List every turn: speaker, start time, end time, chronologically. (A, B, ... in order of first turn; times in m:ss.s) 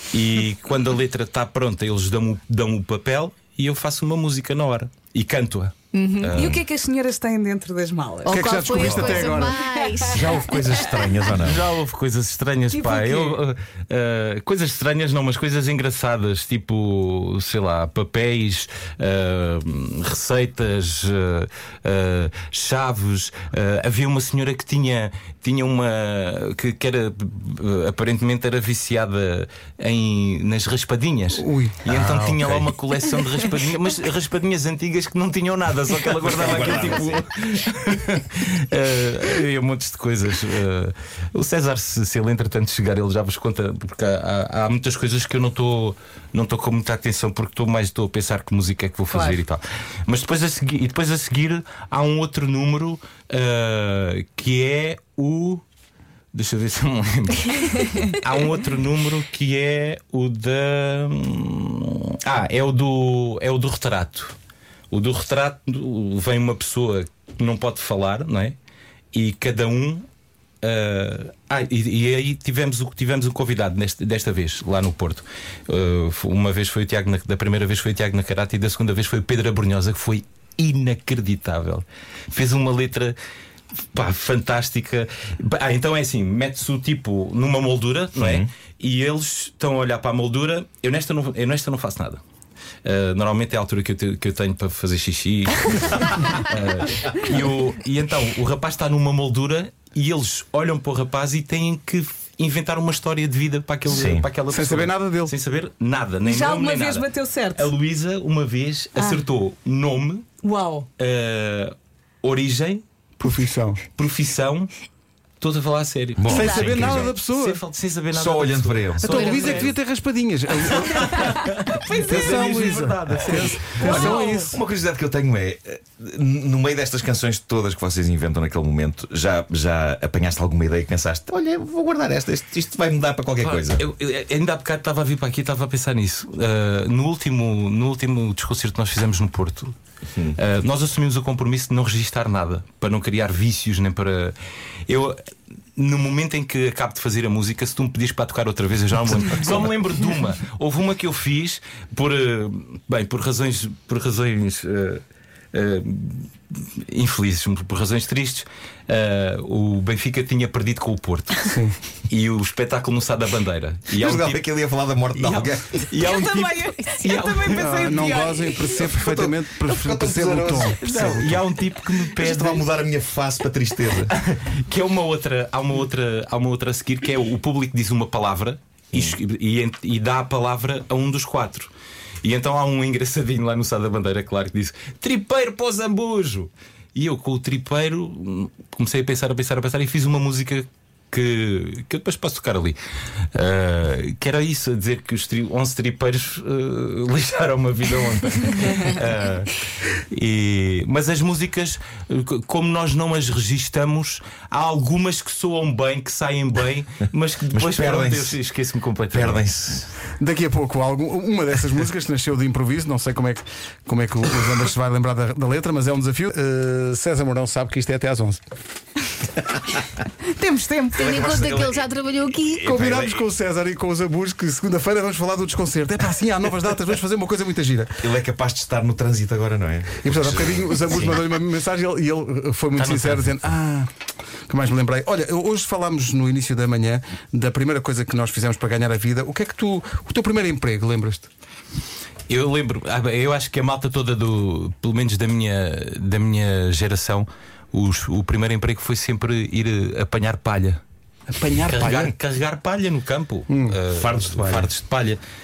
0:00.1-0:06.6 A
0:05.9-0:06.4 B
0:06.2-0:11.2 C
0:08.2-0:10.5 B
0:08.3-0:09.6 D
0:08.7-0:09.3 E
0:10.0-0:11.6 E
0:11.4-0:55.6 A
0:12.7-0:13.4 C
0:31.3-0:32.5 D
0:36.1-0:37.2 E
0:49.1-0:49.4 C
0:56.3-1:04.4 A
1:04.9-1:08.6 A
1:09.1-1:10.1 A
1:10.6-1:23.2 A
1:23.9-1:32.2 A
1:28.2-1:28.5 E
1:32.8-1:50.3 A
1:43.9-1:44.2 E
1:44.5-1:45.3 D
1:46.2-1:47.7 C
1:49.0-1:49.2 C
1:50.4-1:50.9 C
1:51.0-1:52.8 A
1:53.2-1:53.8 D
1:53.9-1:54.7 A
1:55.4-1:59.7 A
1:56.2-1:57.2 E
1:56.3-1:57.6 D
1:56.3-1:56.8 B
1:58.1-1:59.2 E
1:59.0-2:04.6 D
1:59.1-1:59.7 B
2:01.0-2:04.2 A
2:01.7-2:02.3 C
2:03.7-2:04.5 C
2:03.8-2:13.8 E
2:13.4-2:19.8 A
2:20.3-2:24.4 A
2:24.9-2:25.2 A
2:25.8-2:35.0 A
2:35.5-2:41.5 A
2:41.4-2:41.8 D
2:42.1-2:44.5 A
2:43.9-2:45.8 E
2:45.1-2:48.1 A
2:46.0-2:48.9 C
2:47.5-2:51.4 D
2:48.7-2:54.1 E
2:50.7-2:52.7 A
2:54.0-3:01.7 A
3:02.2-3:12.8 A
3:13.3-3:29.5 A
3:27.5-3:28.4 E
3:29.1-3:29.9 E
3:30.2-3:38.4 D
3:40.2-3:41.1 C
3:40.9-3:42.7 B
3:41.0-3:41.9 E
3:42.5-3:43.2 E
3:42.5-3:48.1 D
3:48.0-3:51.2 E
3:50.0-3:53.9 D
3:52.8-3:53.4 A
3:54.5-4:01.3 D
4:02.3-4:10.8 A
4:11.3-4:12.1 D
4:11.6-4:15.2 A
4:13.5-4:14.7 D